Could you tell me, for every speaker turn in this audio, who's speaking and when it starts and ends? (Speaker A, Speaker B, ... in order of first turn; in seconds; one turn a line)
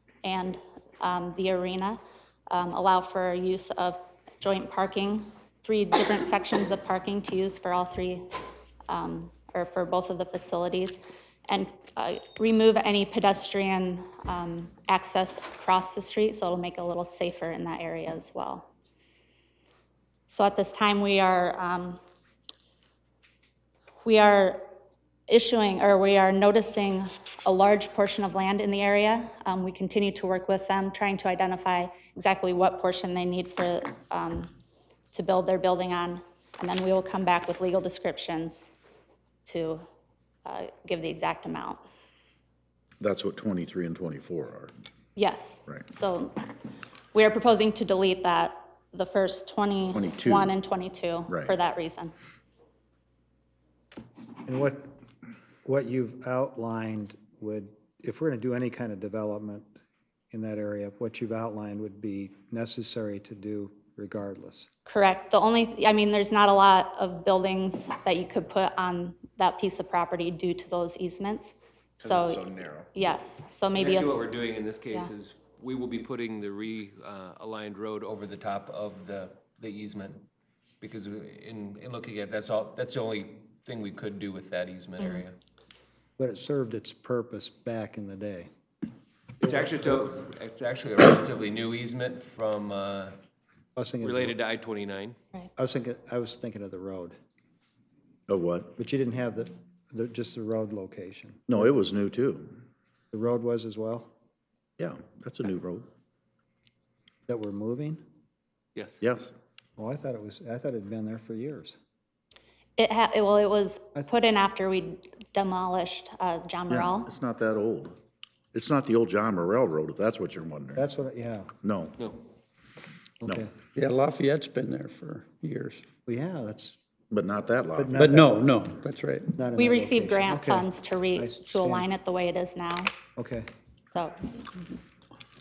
Speaker A: 0.2-8.3
Speaker A: 8.9-18.7
Speaker A: 20.3-22.0
Speaker A: 24.0-24.6
Speaker A: 25.3-34.5
Speaker A: 35.1-38.7
Speaker A: 39.4-39.8
Speaker A: 40.5-41.8
Speaker B: 43.0-44.7
Speaker A: 45.2-46.4
Speaker A: 47.1-52.1
Speaker B: 49.9-50.5
Speaker C: 54.5-54.9
Speaker C: 55.6-59.7
Speaker C: 60.3-64.7
Speaker A: 64.9-74.3
Speaker D: 72.0-72.9
Speaker D: 73.7-80.3
Speaker D: 80.8-85.4
Speaker A: 85.0-85.2
Speaker C: 86.2-88.5
Speaker D: 89.4-93.2
Speaker C: 93.8-94.4
Speaker D: 94.0-95.2
Speaker C: 95.6-97.2
Speaker B: 98.3-98.8
Speaker C: 98.8-101.5
Speaker B: 101.5-102.5
Speaker C: 103.1-104.1
Speaker B: 104.8-105.9
Speaker C: 107.3-108.0
Speaker B: 109.0-109.3
Speaker C: 109.8-111.8
Speaker A: 112.8-117.1
Speaker B: 116.7-118.0
Speaker B: 118.5-120.8
Speaker C: 120.8-121.5
Speaker B: 121.6-122.0
Speaker C: 123.2-123.5
Speaker E: 123.7-125.8
Speaker C: 126.1-126.8
Speaker B: 127.1-128.1
Speaker C: 127.8-128.4
Speaker E: 128.0-129.4
Speaker C: 129.3-131.9
Speaker A: 129.6-132.9
Speaker C: 133.2-133.5
Speaker A: 133.9-134.7